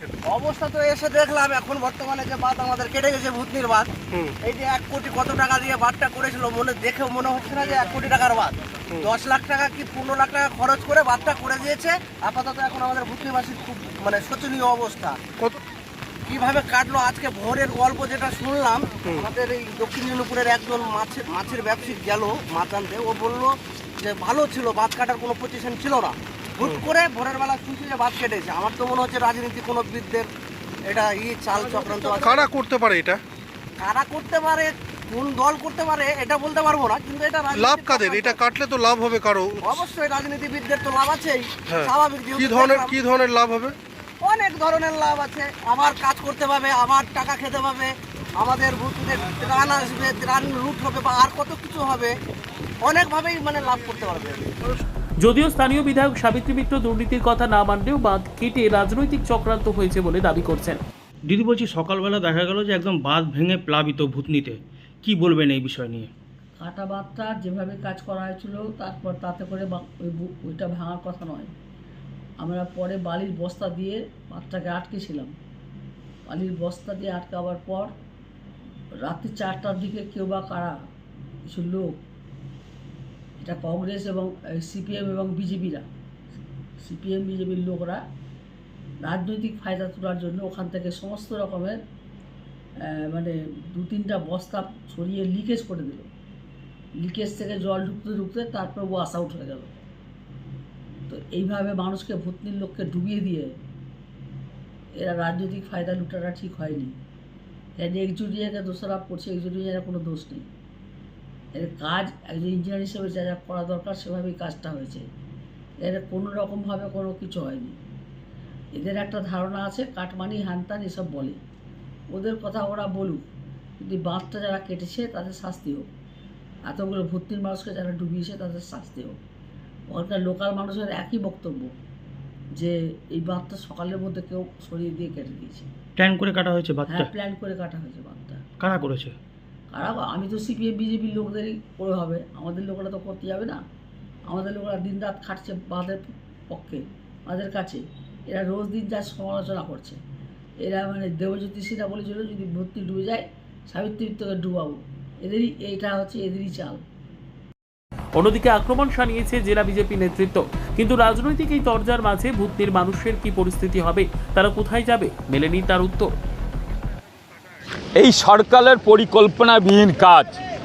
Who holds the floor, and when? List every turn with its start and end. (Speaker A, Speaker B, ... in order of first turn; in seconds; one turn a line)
Speaker A: 0.3-15.2
Speaker A: 16.3-30.3
Speaker A: 30.9-32.5
Speaker B: 32.2-33.2
Speaker A: 33.8-38.4
Speaker B: 37.6-39.7
Speaker A: 39.6-43.1
Speaker B: 42.5-43.8
Speaker A: 44.2-52.1
Speaker A: 52.8-54.5
Speaker C: 55.2-60.8
Speaker D: 61.3-66.1
Speaker E: 66.6-71.5
Speaker E: 72.4-75.3
Speaker E: 76.3-77.9
Speaker E: 79.0-80.8
Speaker E: 81.5-82.0
Speaker E: 83.4-85.9
Speaker E: 86.8-88.0
Speaker E: 89.0-91.8
Speaker E: 93.0-96.1
Speaker E: 97.0-99.8
Speaker E: 101.1-103.5
Speaker E: 105.0-107.0
Speaker E: 107.8-110.5
Speaker E: 111.5-115.0
Speaker E: 115.8-117.8
Speaker E: 118.8-121.4
Speaker E: 122.1-123.3
Speaker E: 123.8-125.9
Speaker E: 126.7-129.2
Speaker E: 129.9-131.7
Speaker E: 132.6-135.7
Speaker D: 136.0-137.1
Speaker E: 136.9-138.4
Speaker D: 138.6-139.1
Speaker E: 139.7-143.6
Speaker E: 144.3-150.0
Speaker E: 150.6-156.8
Speaker C: 158.2-166.1
Speaker F: 168.0-170.4